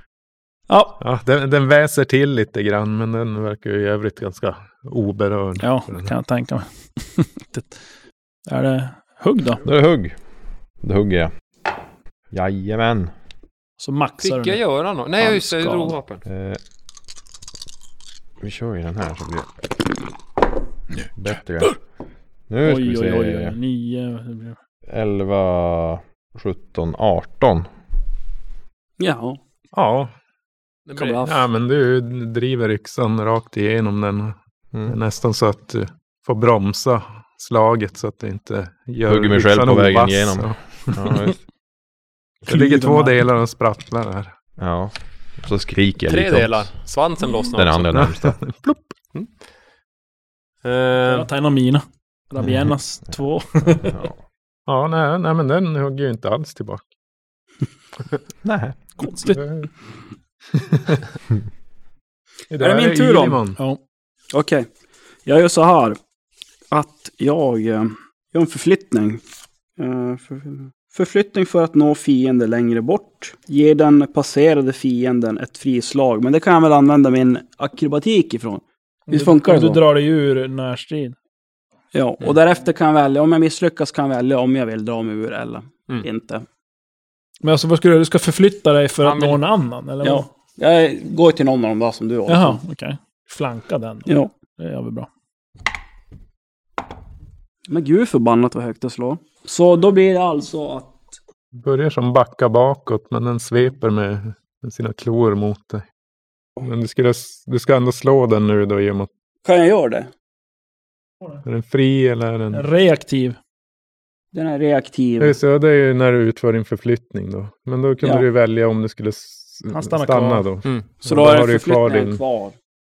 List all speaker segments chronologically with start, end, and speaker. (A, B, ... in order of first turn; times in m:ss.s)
0:00.7-0:01.0 A
0:01.0-0:06.1 B
0:05.6-0:07.8 A
0:08.5-0:09.6 A
0:09.6-0:10.2 C
0:10.8-0:11.3 C
0:12.3-0:13.1 C
0:13.8-0:14.6 A
0:14.2-0:16.2 D
0:15.2-0:16.0 A
0:16.2-0:16.6 C
0:18.4-0:19.5 C
0:21.2-0:21.8 C
0:22.5-0:23.6 C
0:22.6-0:24.6 A
0:24.9-0:27.7 C
0:29.0-0:29.4 E
0:29.7-0:30.1 B
0:30.9-0:31.3 D
0:31.0-0:31.2 E
0:31.2-0:41.1 B
0:39.1-0:41.4 C
0:42.4-0:44.3 B
0:42.5-0:43.2 A
0:44.6-0:46.7 C
0:46.1-0:48.0 D
0:47.6-0:48.4 C
0:47.9-0:48.9 B
0:50.6-0:51.3 D
0:51.0-0:54.0 A
0:52.4-0:52.7 C
0:53.9-0:54.1 C
0:54.7-0:56.9 B
0:58.4-0:58.9 C
0:59.0-0:59.4 A
0:59.2-0:59.7 B
1:00.5-1:01.0 B
1:02.5-1:03.6 B
1:02.6-1:03.4 E
1:04.3-1:04.7 E
1:05.2-1:06.0 E
1:06.7-1:09.2 E
1:09.8-1:19.8 E
1:19.1-1:21.2 A
1:21.9-1:26.4 E
1:27.4-1:30.3 A
1:29.0-1:29.4 D
1:30.0-1:32.6 E
1:32.3-1:35.1 A
1:34.1-1:34.3 E
1:37.7-1:41.1 E
1:41.5-1:45.8 B
1:46.6-1:49.1 B
1:49.4-1:50.1 E
1:51.4-1:52.6 B
1:52.5-1:53.4 A
1:54.3-1:55.4 E
1:55.2-2:02.2 B
1:59.7-2:00.5 A
2:01.0-2:02.6 E